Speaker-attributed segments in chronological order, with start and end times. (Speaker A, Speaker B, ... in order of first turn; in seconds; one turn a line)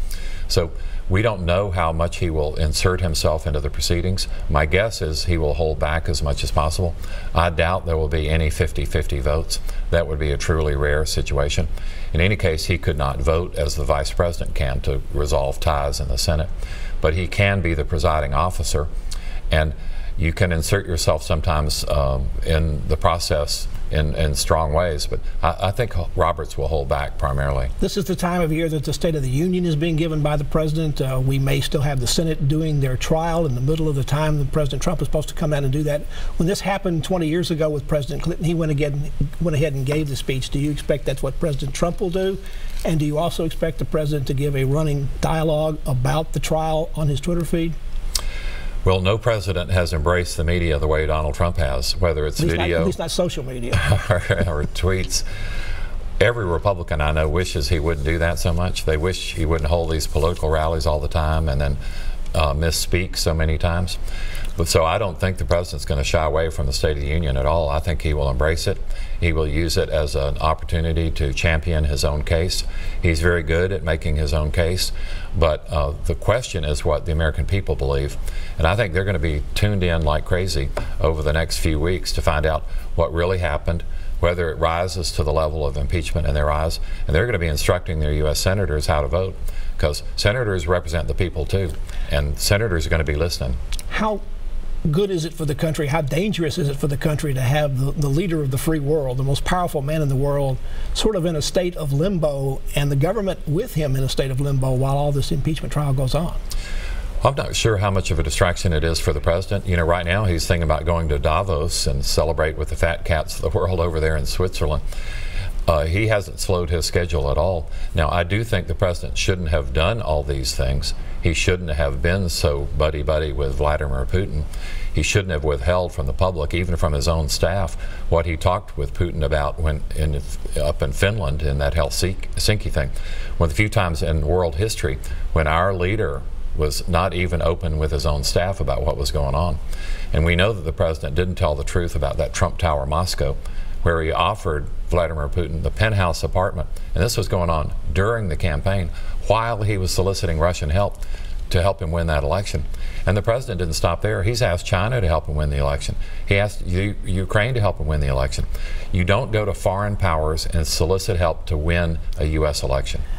Speaker A: 0.5-16.5
Speaker A: 17.0-18.9
Speaker A: 19.5-27.7
Speaker B: 27.8-47.8
Speaker A: 48.8-52.9
Speaker B: 52.4-53.8
Speaker A: 53.7-55.2
Speaker A: 56.2-61.8
Speaker A: 62.3-64.0
Speaker A: 64.6-93.6
Speaker B: 93.9-94.2
Speaker B: 94.8-106.4
Speaker A: 107.2-114.8
Speaker A: 115.7-139.6
Speaker A: 140.1-163.0